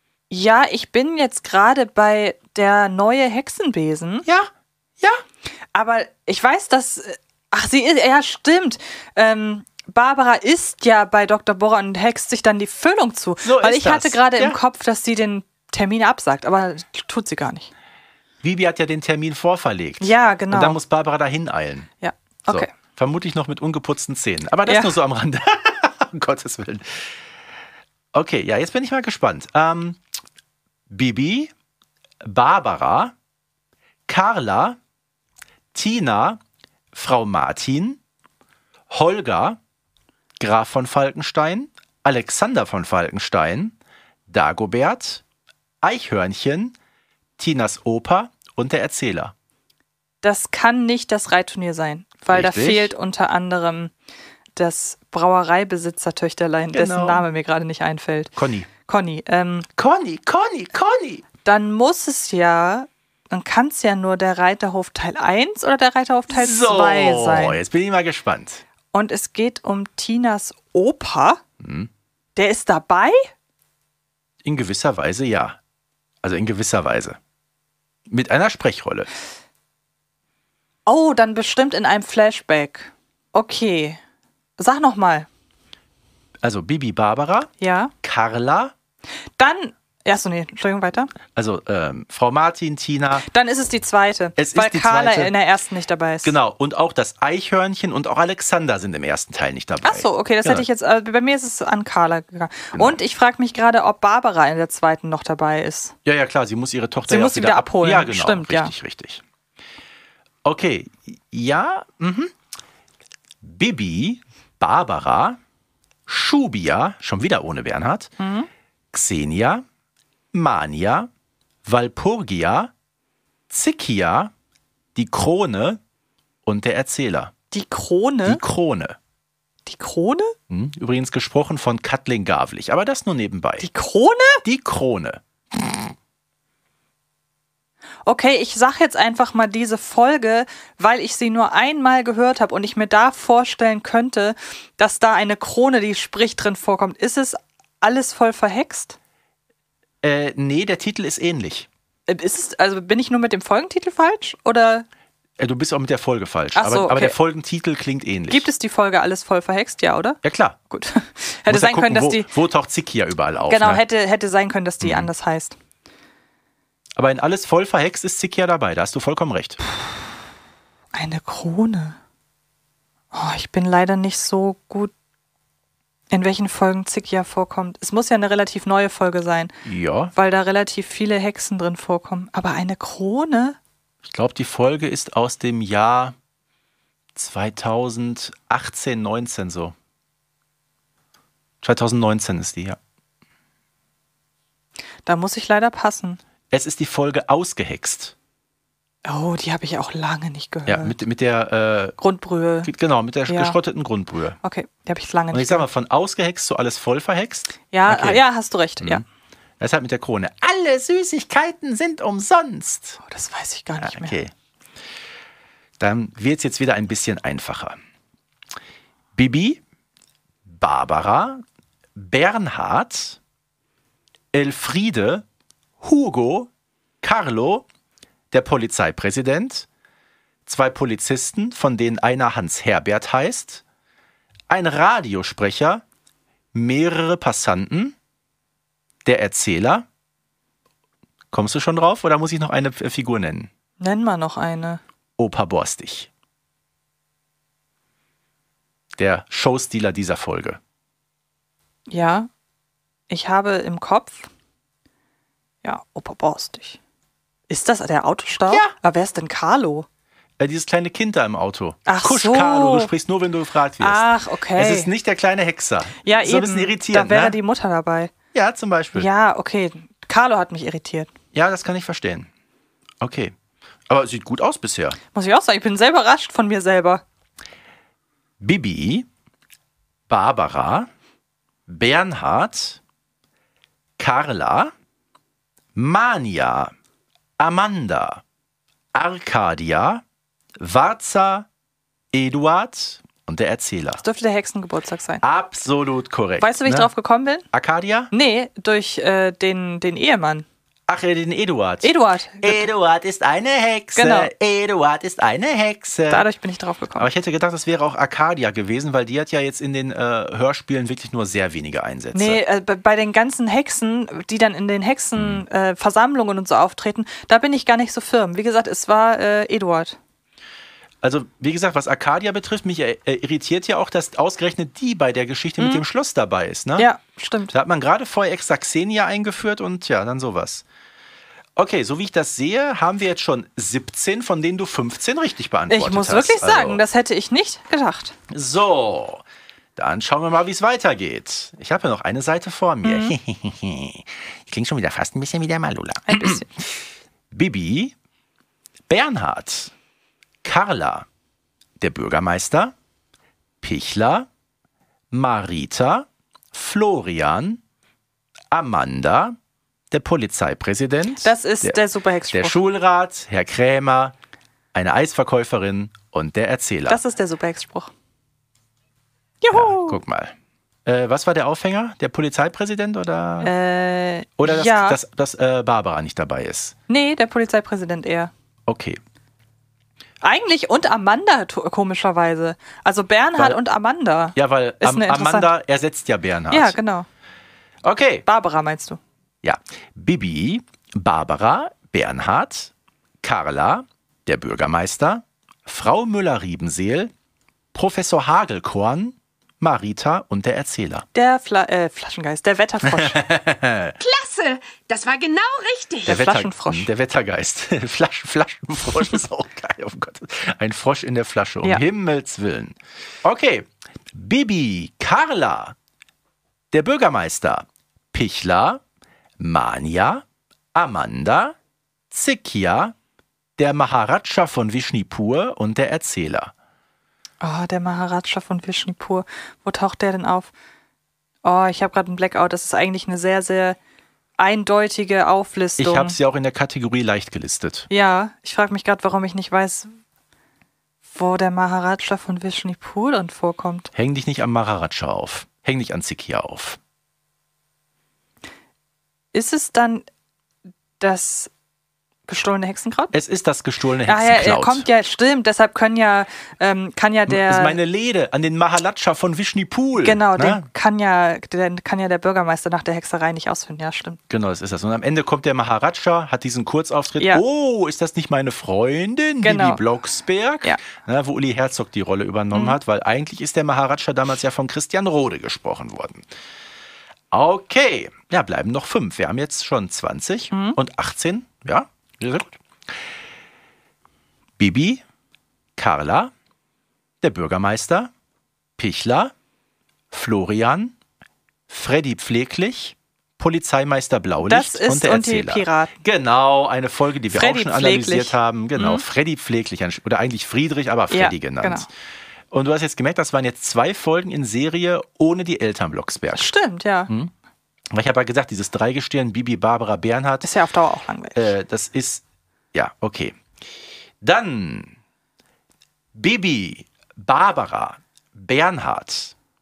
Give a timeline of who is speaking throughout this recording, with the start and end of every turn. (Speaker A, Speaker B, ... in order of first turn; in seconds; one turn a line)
Speaker A: 0.3-4.2
Speaker B: 4.2-5.2
Speaker A: 5.7-17.7
Speaker B: 13.4-14.6
Speaker B: 18.4-21.9
Speaker A: 20.0-20.8
Speaker A: 22.0-22.7
Speaker B: 22.5-27.2
Speaker A: 24.6-24.9
Speaker B: 28.1-30.0
Speaker B: 30.9-31.5
Speaker B: 32.2-33.1
Speaker B: 34.1-34.8
Speaker B: 35.7-36.4
Speaker B: 36.9-38.0
Speaker B: 38.9-39.6
Speaker B: 40.4-43.7
Speaker B: 44.3-45.2
Speaker B: 45.8-46.7
Speaker B: 47.4-49.3
Speaker A: 50.2-53.9
Speaker B: 52.3-52.9
Speaker A: 54.6-58.3
Speaker B: 56.7-57.2
Speaker B: 58.4-58.7
Speaker A: 58.8-59.7
Speaker B: 59.8-61.2
Speaker A: 61.4-67.6
Speaker B: 66.3-68.6
Speaker A: 68.9-71.4
Speaker B: 71.6-71.9
Speaker A: 72.3-73.3
Speaker B: 74.4-75.6
Speaker B: 76.2-77.2
Speaker B: 78.1-79.1
Speaker A: 80.8-84.0
Speaker A: 84.6-85.3
Speaker B: 86.4-87.5
Speaker A: 87.6-87.9
Speaker B: 88.0-88.7
Speaker A: 89.4-91.1
Speaker B: 91.3-93.2
Speaker A: 93.2-96.3
Speaker B: 94.4-95.3
Speaker B: 96.2-100.6
Speaker A: 99.8-105.9
Speaker B: 106.0-109.2
Speaker A: 107.1-108.7
Speaker B: 110.4-112.3
Speaker B: 113.4-115.4
Speaker B: 116.1-118.1
Speaker A: 118.2-118.5
Speaker B: 118.9-119.6
Speaker B: 120.3-121.1
Speaker B: 121.7-122.7
Speaker B: 123.5-124.3
Speaker B: 124.9-125.8
Speaker B: 126.4-127.3
Speaker A: 127.5-128.4
Speaker B: 128.2-128.9
Speaker A: 129.7-130.3
Speaker B: 130.5-133.7
Speaker A: 133.6-134.4
Speaker B: 134.4-135.8
Speaker A: 138.1-149.0
Speaker B: 150.0-151.7
Speaker A: 152.1-154.8
Speaker B: 155.4-158.5
Speaker A: 156.5-157.2
Speaker A: 158.3-160.2
Speaker B: 160.2-160.6
Speaker A: 160.7-162.3
Speaker B: 161.5-163.8
Speaker A: 163.5-165.6
Speaker B: 164.8-165.1
Speaker B: 167.0-169.6
Speaker A: 170.9-172.0
Speaker A: 173.1-174.9
Speaker A: 176.1-179.5
Speaker B: 179.6-180.1
Speaker A: 180.1-183.6
Speaker B: 184.0-186.1
Speaker B: 187.1-189.7
Speaker B: 191.6-192.8
Speaker A: 195.0-196.2
Speaker B: 196.5-198.1
Speaker A: 199.0-200.9
Speaker B: 200.7-201.9
Speaker A: 202.0-202.7
Speaker B: 202.6-204.4
Speaker A: 203.3-203.6
Speaker A: 204.4-205.7
Speaker B: 205.3-208.2
Speaker A: 207.7-209.0
Speaker B: 209.6-213.0
Speaker A: 213.0-214.2
Speaker B: 213.8-214.3
Speaker B: 215.8-217.8
Speaker B: 219.2-219.6
Speaker B: 220.5-221.4
Speaker B: 221.9-223.2
Speaker B: 224.3-225.2
Speaker B: 225.8-226.5
Speaker B: 227.0-227.6
Speaker B: 228.3-229.7
Speaker B: 230.4-233.6
Speaker B: 234.5-235.8
Speaker B: 236.5-237.9
Speaker B: 239.0-239.8
Speaker B: 241.3-243.5
Speaker A: 243.8-244.8
Speaker B: 245.2-246.1
Speaker B: 249.0-250.6
Speaker A: 251.9-252.3
Speaker A: 253.1-254.3
Speaker A: 255.6-256.8
Speaker A: 257.5-259.9
Speaker B: 260.4-267.4
Speaker A: 261.9-262.9
Speaker A: 263.8-264.9
Speaker A: 266.0-268.1
Speaker B: 268.3-269.1
Speaker A: 268.9-271.1
Speaker B: 271.3-272.3
Speaker B: 273.0-273.3
Speaker B: 273.9-275.0
Speaker A: 275.1-277.0
Speaker B: 278.4-279.1
Speaker B: 280.1-280.9
Speaker B: 281.7-282.8
Speaker B: 284.0-284.7
Speaker B: 285.7-286.7
Speaker B: 287.4-288.2
Speaker B: 288.9-290.0
Speaker B: 290.6-291.5
Speaker B: 292.1-294.0
Speaker A: 294.0-295.2
Speaker B: 295.2-296.9
Speaker A: 296.4-297.4
Speaker B: 297.5-298.1
Speaker A: 298.1-300.4
Speaker B: 300.9-306.3
Speaker A: 301.8-302.7
Speaker A: 304.0-304.3
Speaker A: 306.1-307.1
Speaker B: 307.0-312.4
Speaker A: 312.1-320.0
Speaker B: 315.1-315.4
Speaker B: 321.0-326.9
Speaker A: 326.8-327.5
Speaker B: 327.5-330.6
Speaker B: 331.6-336.8
Speaker A: 335.7-338.1
Speaker B: 338.3-339.2
Speaker B: 339.8-347.9
Speaker A: 342.8-343.1
Speaker A: 346.1-346.5
Speaker B: 348.9-349.7
Speaker B: 350.4-351.1
Speaker B: 351.8-352.7
Speaker B: 353.6-354.3
Speaker B: 355.1-357.6
Speaker B: 358.5-359.4
Speaker B: 359.9-361.8
Speaker A: 361.2-362.6
Speaker B: 362.3-364.1
Speaker B: 364.7-367.0
Speaker A: 366.9-367.9
Speaker A: 369.4-370.0
Speaker B: 369.5-370.3
Speaker B: 370.8-373.5
Speaker A: 373.4-375.0
Speaker B: 374.4-376.8
Speaker A: 376.9-378.3
Speaker B: 378.7-379.0
Speaker A: 380.2-385.5
Speaker B: 384.3-386.8
Speaker A: 386.5-387.1
Speaker B: 387.8-388.2
Speaker A: 388.2-389.0
Speaker B: 389.4-397.1
Speaker B: 397.7-401.0
Speaker A: 401.1-403.2
Speaker B: 402.8-404.0
Speaker C: 404.0-406.1
Speaker A: 406.1-406.9
Speaker B: 406.1-415.8
Speaker B: 416.7-418.8
Speaker B: 419.4-421.6
Speaker B: 422.1-422.9
Speaker B: 423.6-426.5
Speaker A: 427.4-430.5
Speaker A: 431.4-433.8
Speaker A: 434.4-436.2
Speaker B: 435.8-437.9
Speaker A: 437.9-439.9
Speaker A: 441.1-443.9
Speaker B: 443.9-446.8
Speaker A: 449.3-450.1
Speaker A: 451.0-451.5
Speaker A: 452.3-453.1
Speaker B: 453.1-454.9
Speaker A: 454.1-457.8
Speaker B: 457.3-460.6
Speaker A: 460.0-464.2
Speaker B: 464.3-476.2
Speaker A: 469.4-469.8
Speaker A: 472.5-472.8
Speaker B: 477.3-482.9
Speaker A: 480.5-480.8
Speaker B: 484.6-485.0
Speaker B: 485.8-486.3
Speaker B: 487.2-488.1
Speaker B: 488.8-489.3
Speaker B: 490.1-490.9
Speaker B: 491.7-501.9
Speaker A: 494.5-495.9
Speaker A: 497.3-499.0
Speaker A: 501.1-501.9
Speaker B: 502.5-506.5
Speaker A: 506.3-507.1
Speaker B: 507.9-510.5
Speaker A: 510.4-511.5
Speaker B: 511.3-514.9
Speaker B: 516.1-519.3